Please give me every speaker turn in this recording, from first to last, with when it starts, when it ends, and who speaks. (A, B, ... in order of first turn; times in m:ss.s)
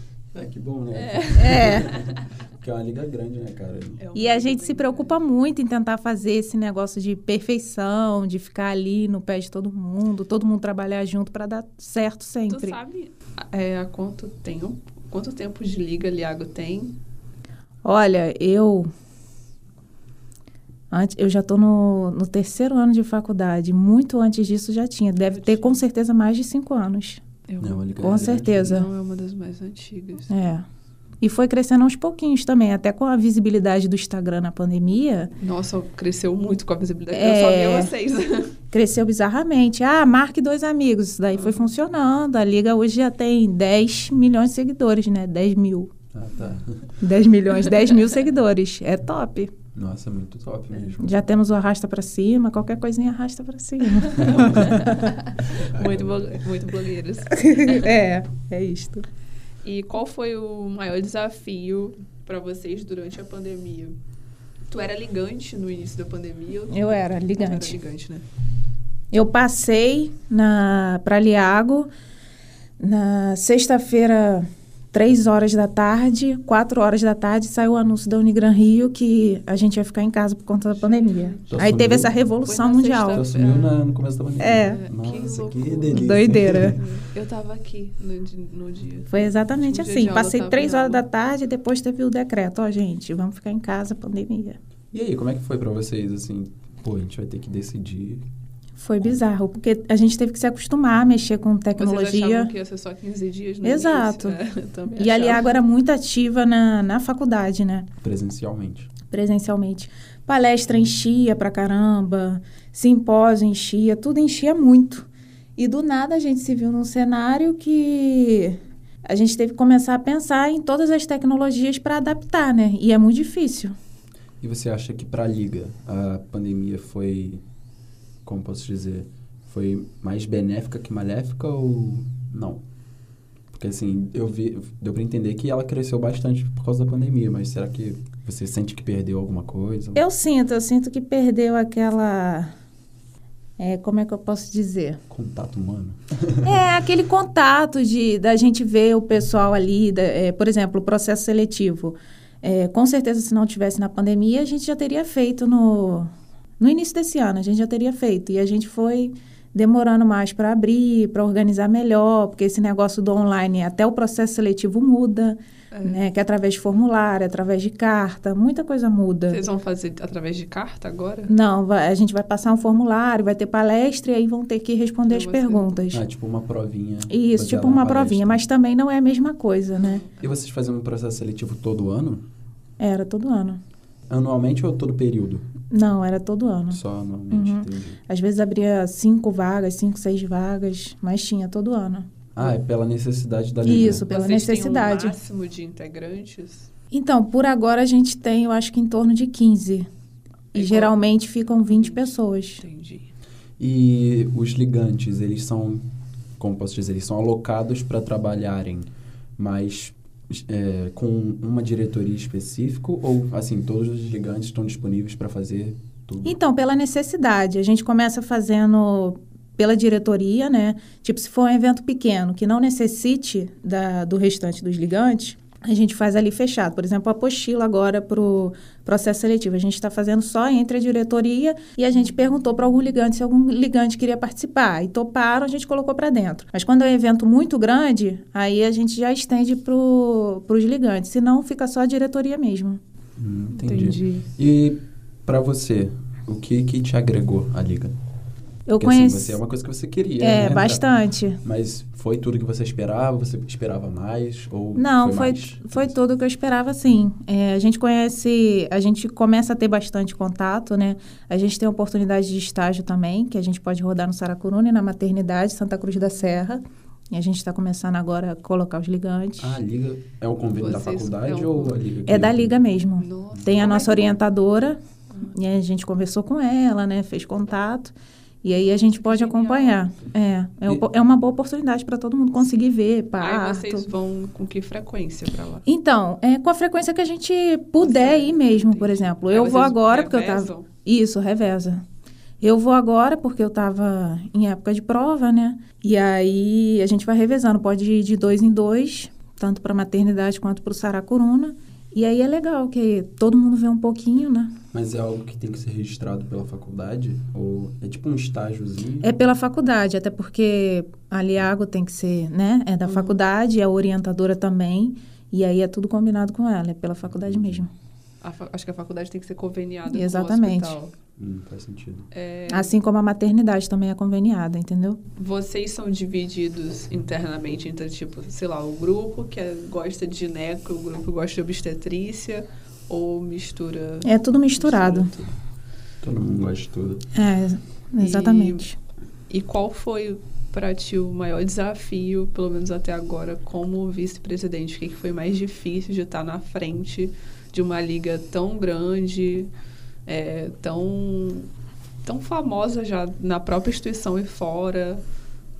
0:00.3-0:04.0 A
0:00.9-0:02.2 B
0:01.3-0:01.9 C
0:04.0-0:05.2 B
0:04.1-0:12.8 C
0:12.5-0:17.0 B
0:17.8-0:18.9 C
0:20.9-0:27.2 C
0:25.3-0:25.8 B
0:27.5-0:30.3 B
0:27.6-0:28.8 A
0:28.0-0:28.9 C
0:30.3-0:30.6 C
0:31.2-0:35.3 C
0:35.4-0:38.5 B
0:37.1-0:37.9 C
0:38.7-0:45.9 C
0:46.1-0:47.0 A
0:47.0-0:49.5 C
0:49.7-0:51.3 A
0:51.0-0:55.1 C
0:54.0-0:57.9 B
0:54.2-0:54.7 A
0:55.4-0:56.4 A
0:57.3-0:59.0 C
0:59.6-1:04.0 B
1:04.7-1:08.2 B
1:06.7-1:07.8 C
1:09.1-1:11.9 C
1:12.8-1:23.2 C
1:20.8-1:21.8 B
1:21.5-1:22.1 A
1:22.4-1:23.8 B
1:23.1-1:26.9 A
1:24.4-1:24.8 C
1:24.6-1:31.0 B
1:25.9-1:26.8 C
1:29.1-1:34.6 C
1:34.9-1:38.2 A
1:38.8-1:42.5 C
1:41.8-1:45.6 B
1:43.6-1:44.4 C
1:44.9-1:47.9 C
1:48.0-1:48.9 A
1:49.1-2:03.7 C
2:04.4-2:07.4 A
2:08.2-2:12.6 A
2:13.5-2:20.0 A
2:20.0-2:22.5 C
2:23.6-2:25.0 C
2:25.1-2:26.6 A
2:26.4-2:49.4 C
2:45.7-2:46.0 B
2:49.3-2:51.3 B
2:51.3-2:56.0 C
2:55.0-2:55.8 B
2:55.9-2:58.4 A
2:57.1-3:00.0 C
2:59.8-3:00.2 B
3:00.2-3:02.2 A
3:02.8-3:03.6 C
3:04.1-3:05.5 A
3:05.7-3:06.8 C
3:06.7-3:08.0 A
3:07.3-3:12.1 C
3:12.3-3:14.0 A
3:13.6-3:15.2 C
3:13.7-3:16.7 B
3:16.9-3:19.9 C
3:20.5-3:22.6 C
3:20.5-3:21.0 B
3:21.7-3:23.1 B
3:23.6-3:25.8 A
3:26.4-3:36.4 A
3:36.2-4:02.8 C
4:03.2-4:07.9 A
4:03.6-4:04.3 B
4:08.7-4:09.4 C
4:08.8-4:10.8 A
4:10.2-4:11.4 C
4:11.4-4:15.9 A
4:14.8-4:29.6 C
4:29.4-4:32.6 A
4:30.6-4:31.8 B
4:32.0-4:43.9 C
4:33.0-4:34.2 B
4:38.5-4:39.9 B
4:43.2-4:45.6 B
4:45.6-4:51.8 C
4:47.8-4:50.7 B
4:52.4-5:04.5 C
5:04.7-5:09.1 A
5:09.0-5:17.7 C
5:12.8-5:13.2 B
5:17.1-5:17.7 A
5:18.2-5:20.9 B
5:19.9-5:20.8 C
5:21.2-5:22.1 A
5:22.1-5:22.8 B
5:22.5-5:25.0 C
5:25.2-5:35.3 B
5:34.0-5:35.1 C
5:36.0-5:37.0 A
5:37.1-5:38.8 C
5:38.0-5:38.6 B
5:39.3-5:49.5 B
5:50.1-5:51.5 B
5:52.0-5:55.0 B